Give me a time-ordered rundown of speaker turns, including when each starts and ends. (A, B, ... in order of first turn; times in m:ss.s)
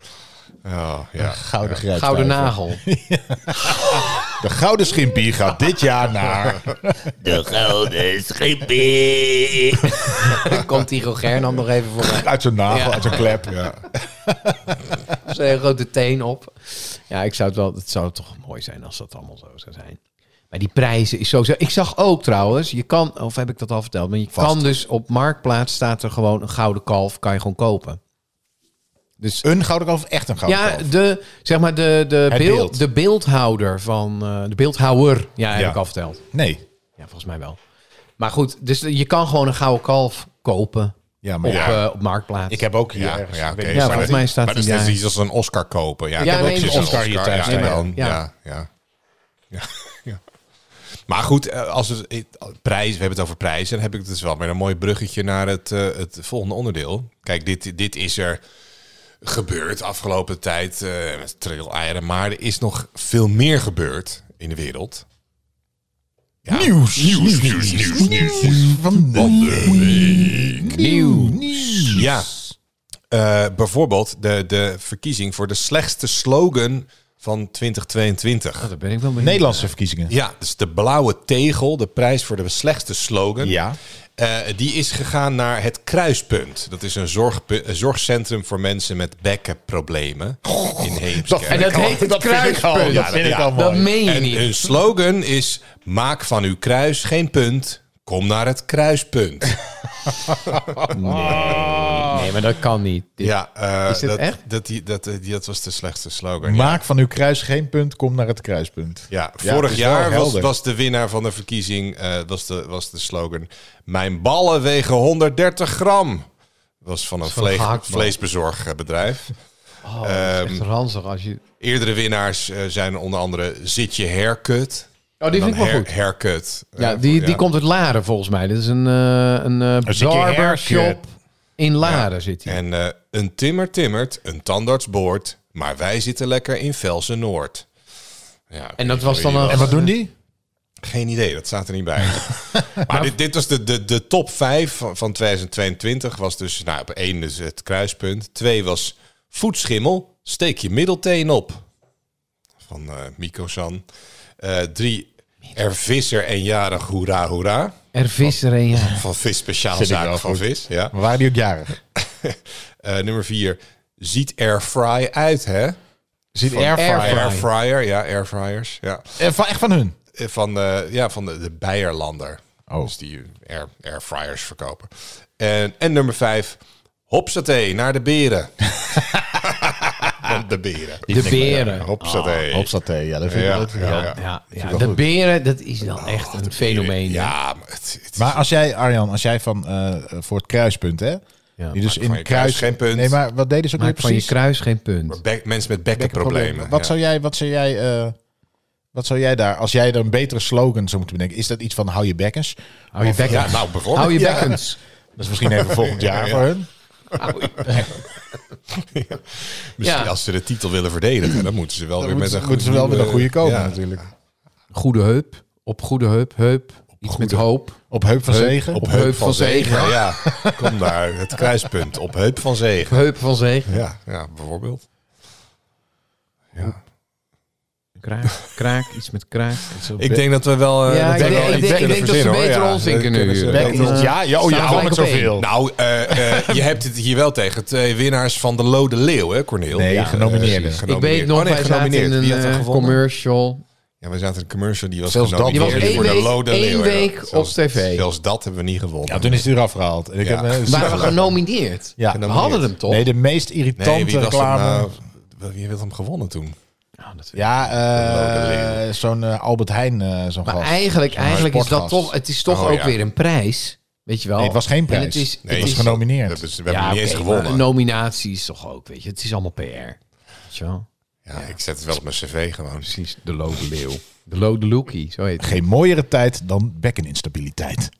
0:00.6-0:01.8 A
0:01.2-0:07.2 B
0:01.9-0:02.8 C
0:03.6-0:04.2 C
0:07.2-0:13.4 C
0:12.0-0:15.0 B
0:13.5-0:13.8 A
0:15.2-0:20.0 C
0:20.5-0:28.0 C
0:24.4-0:24.6 B
0:29.2-0:29.5 C
0:29.4-0:30.9 B
0:30.4-0:36.2 C
0:32.3-0:32.8 B
0:35.5-0:35.8 B
0:36.3-0:36.6 B
0:37.0-0:37.6 C
0:38.2-0:42.6 C
0:41.2-0:41.8 B
0:41.4-0:41.8 A
0:42.5-0:44.2 B
0:42.9-0:48.7 A
0:43.7-0:45.0 C
0:46.2-0:48.0 B
0:46.2-0:48.2 C
0:49.5-0:50.2 A
0:51.1-0:58.4 A
0:59.2-1:05.0 A
1:06.4-1:10.7 A
1:06.5-1:12.2 B
1:09.7-1:10.1 C
1:10.6-1:12.0 C
1:11.9-1:12.4 A
1:13.1-1:18.7 A
1:18.6-1:19.7 C
1:19.2-1:20.1 B
1:20.1-1:23.6 A
1:23.4-1:23.8 B
1:24.2-1:31.9 A
1:30.5-1:33.9 B
1:31.5-1:34.5 C
1:32.9-1:39.6 A
1:40.7-1:42.3 B
1:40.9-1:43.3 C
1:43.2-1:46.8 A
1:43.9-1:44.4 C
1:46.4-1:50.5 B
1:49.1-1:56.3 A
1:56.8-1:59.4 A
1:57.2-1:58.1 C
1:59.8-2:01.4 C
2:00.0-2:00.6 A
2:01.6-2:07.4 A
2:05.2-2:05.9 C
2:06.8-2:11.0 C
2:09.8-2:11.0 B
2:11.6-2:12.6 C
2:11.8-2:17.7 A
2:18.5-2:19.8 A
2:18.8-2:19.9 C
2:19.5-2:20.1 B
2:20.8-2:31.6 A
2:32.6-2:33.8 A
2:34.4-2:41.0 A
2:37.9-2:39.0 C
2:39.7-2:41.8 B
2:42.0-2:45.8 A
2:46.4-2:47.3 B
2:46.5-2:49.2 A
2:46.7-2:47.5 C
2:49.2-2:50.0 B
2:50.1-3:02.7 A
3:01.1-3:01.8 B
3:01.1-3:02.4 C
3:02.5-3:05.0 B
3:03.3-3:04.2 A
3:03.7-3:07.4 C
3:06.0-3:08.4 A
3:08.2-3:11.2 B
3:11.7-3:14.3 B
3:11.8-3:13.2 A
3:13.8-3:15.2 C
3:15.1-3:16.9 A
3:16.0-3:18.1 B
3:18.9-3:24.6 B
3:22.9-3:24.8 C
3:23.3-3:24.5 A
3:25.2-3:26.7 B
3:25.6-3:26.4 A
3:27.1-3:28.0 A
3:27.2-3:27.9 C
3:28.7-3:34.0 A
3:29.8-3:30.1 C
3:32.0-3:34.0 B
3:34.7-3:40.0 C
3:37.0-3:37.4 A
3:37.9-3:38.8 B
3:38.8-3:43.0 A
3:39.7-3:41.0 B
3:42.8-3:43.8 C
3:43.7-3:44.8 A
3:48.0-3:50.0 C
3:49.9-3:50.2 B
3:50.0-4:03.0 A
3:50.9-3:55.4 C
3:51.1-3:52.3 B
3:53.5-3:55.5 B
3:56.1-3:56.6 B
3:59.7-4:00.8 B
4:00.4-4:03.6 C
4:04.0-4:09.5 A
4:05.1-4:06.2 B
4:05.5-4:08.0 C
4:09.0-4:11.2 B
4:10.2-4:11.2 A
4:10.7-4:13.0 C
4:12.0-4:12.3 B
4:12.1-4:12.7 A
4:12.8-4:14.9 B
4:13.8-4:16.6 A
4:17.0-4:17.5 C
4:17.4-4:22.1 B
4:17.9-4:18.8 A
4:20.4-4:26.0 C
4:22.5-4:23.0 A
4:24.4-4:26.4 B
4:25.4-4:27.7 A
4:26.6-4:30.0 C
4:30.5-4:31.5 C
4:31.3-4:32.9 A
4:32.8-4:35.6 C
4:35.4-4:37.9 B